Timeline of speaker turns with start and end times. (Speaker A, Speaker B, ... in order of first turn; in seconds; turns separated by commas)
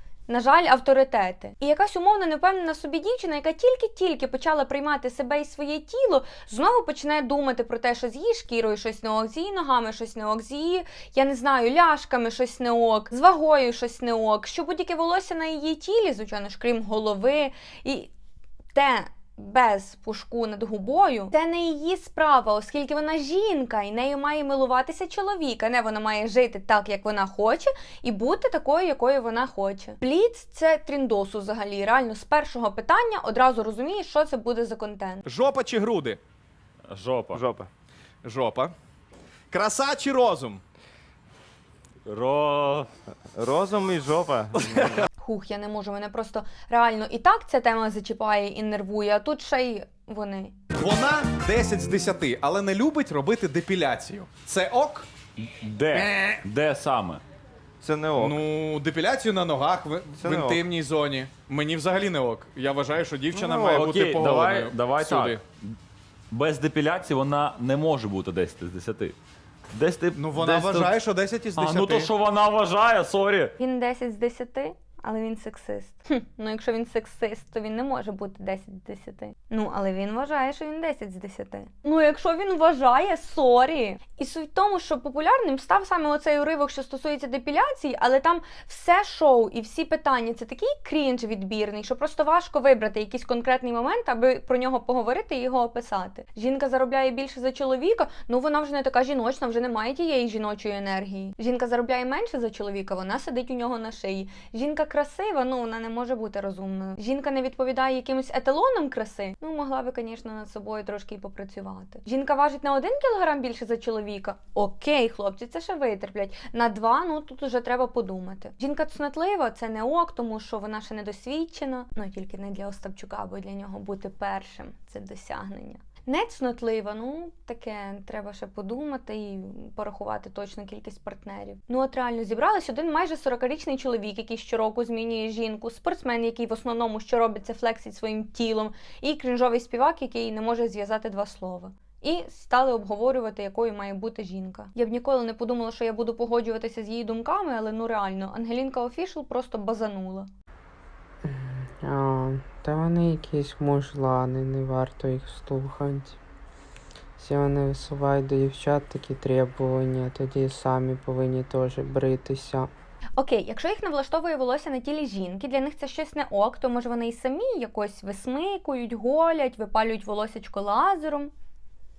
Speaker A: 0.3-18.1, Speaker A: 18.7-35.2, Speaker B: 35.2-36.2, Speaker C: 36.9-37.4, Speaker D: 37.3-37.7, Speaker B: 38.2-38.7, Speaker B: 39.5-40.6, Speaker C: 42.1-42.9, Speaker D: 43.3-45.0, Speaker A: 45.2-50.5, Speaker B: 50.8-55.1, Speaker C: 55.4-57.2, Speaker D: 57.8-58.4, Speaker B: 58.2-65.4, Speaker D: 60.2-60.6, Speaker D: 63.3-63.9, Speaker C: 63.7-65.4, Speaker C: 66.3-69.1, Speaker C: 69.7-71.0, Speaker B: 70.1-72.1, Speaker C: 71.5-73.5, Speaker A: 73.6-150.3, Speaker E: 151.2-156.2, Speaker E: 157.2-162.7, Speaker A: 163.2-171.3